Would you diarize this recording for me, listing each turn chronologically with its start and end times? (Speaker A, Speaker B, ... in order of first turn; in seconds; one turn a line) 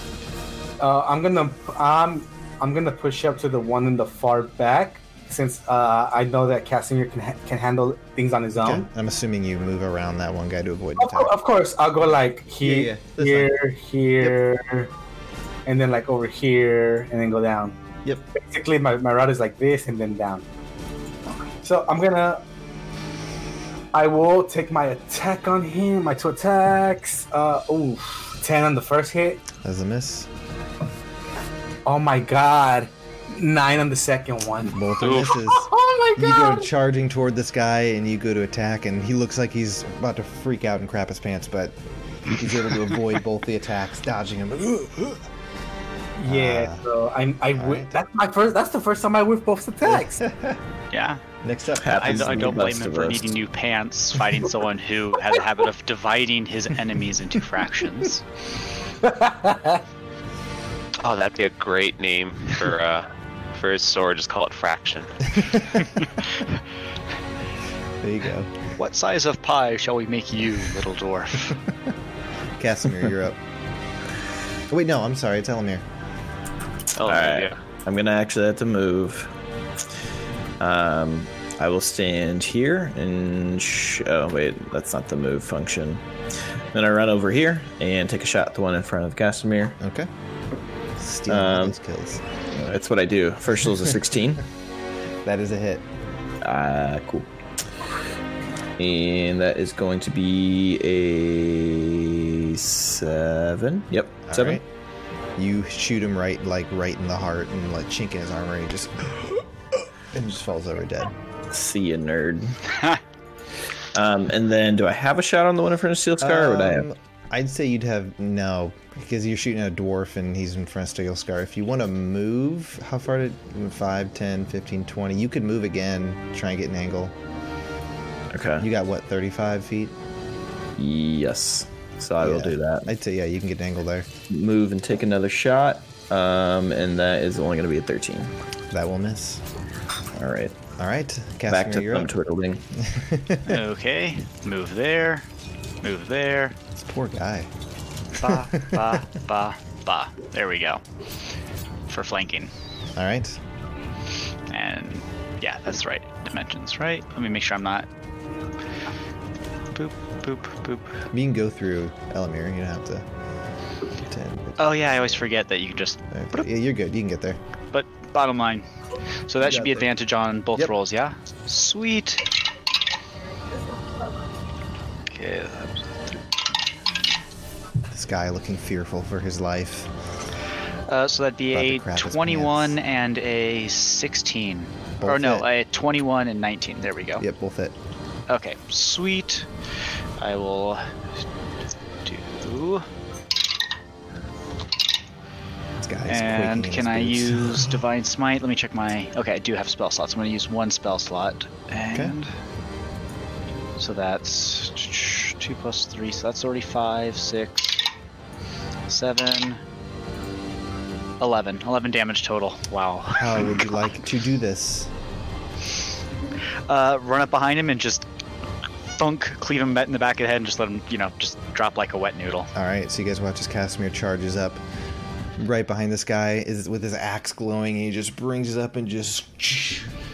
Speaker A: 0.8-8.9
Speaker B: 8.6-11.3
Speaker A: 11.0-14.9
Speaker B: 12.6-13.6
Speaker A: 15.7-17.8
Speaker A: 18.3-20.4
Speaker A: 21.6-22.4
Speaker A: 23.9-29.4
Speaker B: 29.6-30.3
Speaker A: 31.9-36.7
Speaker B: 34.7-45.2
Speaker C: 35.0-35.4
Speaker A: 46.2-50.2
Speaker B: 46.2-46.8
Speaker B: 47.5-48.0
Speaker B: 49.8-50.6
Speaker D: 50.9-51.2
Speaker B: 51.4-52.6
Speaker E: 51.8-53.3
Speaker D: 51.9-58.2
Speaker A: 59.0-59.8
Speaker C: 61.0-65.8
Speaker B: 68.0-68.5
Speaker D: 68.8-71.6
Speaker B: 72.6-73.4
Speaker B: 74.7-75.8
Speaker C: 77.0-77.6
Speaker E: 77.0-79.3
Speaker E: 80.6-86.0
Speaker E: 86.7-89.8
Speaker B: 89.8-90.1
Speaker B: 91.0-92.7
Speaker E: 91.3-91.7
Speaker E: 92.6-94.4
Speaker B: 95.2-95.9
Speaker E: 96.4-97.3
Speaker E: 98.8-104.6
Speaker B: 104.3-104.6
Speaker B: 105.4-109.5
Speaker B: 110.1-111.1
Speaker E: 111.5-112.6
Speaker E: 113.9-116.8
Speaker B: 116.2-127.1
Speaker E: 128.3-128.7
Speaker B: 128.6-129.9
Speaker E: 130.8-132.9
Speaker B: 132.2-134.1
Speaker E: 134.3-138.3
Speaker B: 138.7-139.4
Speaker E: 140.1-140.5
Speaker B: 140.8-142.1
Speaker E: 141.5-142.6
Speaker B: 142.8-143.6
Speaker D: 143.4-145.2
Speaker D: 145.8-146.6
Speaker B: 146.7-147.5
Speaker D: 148.1-150.8
Speaker B: 148.2-149.0
Speaker D: 151.9-152.5
Speaker B: 152.9-153.4
Speaker D: 154.5-157.9
Speaker D: 159.7-160.9
Speaker B: 161.1-163.1
Speaker B: 164.1-165.2
Speaker D: 164.6-166.5
Speaker B: 166.1-167.4
Speaker D: 167.7-168.7
Speaker D: 169.3-172.3
Speaker B: 169.4-169.9
Speaker D: 175.1-175.8
Speaker B: 177.9-179.9
Speaker D: 180.9-187.2
Speaker B: 181.5-182.8
Speaker B: 185.0-185.5
Speaker B: 187.2-187.8
Speaker D: 188.3-189.5
Speaker D: 190.2-190.9
Speaker D: 192.0-192.8
Speaker B: 195.8-197.7
Speaker D: 196.1-202.3
Speaker D: 203.8-207.8
Speaker D: 208.9-209.6
Speaker D: 211.2-213.6
Speaker B: 213.1-214.9
Speaker D: 216.7-218.1
Speaker D: 219.0-222.5
Speaker B: 222.5-224.6
Speaker B: 225.4-229.9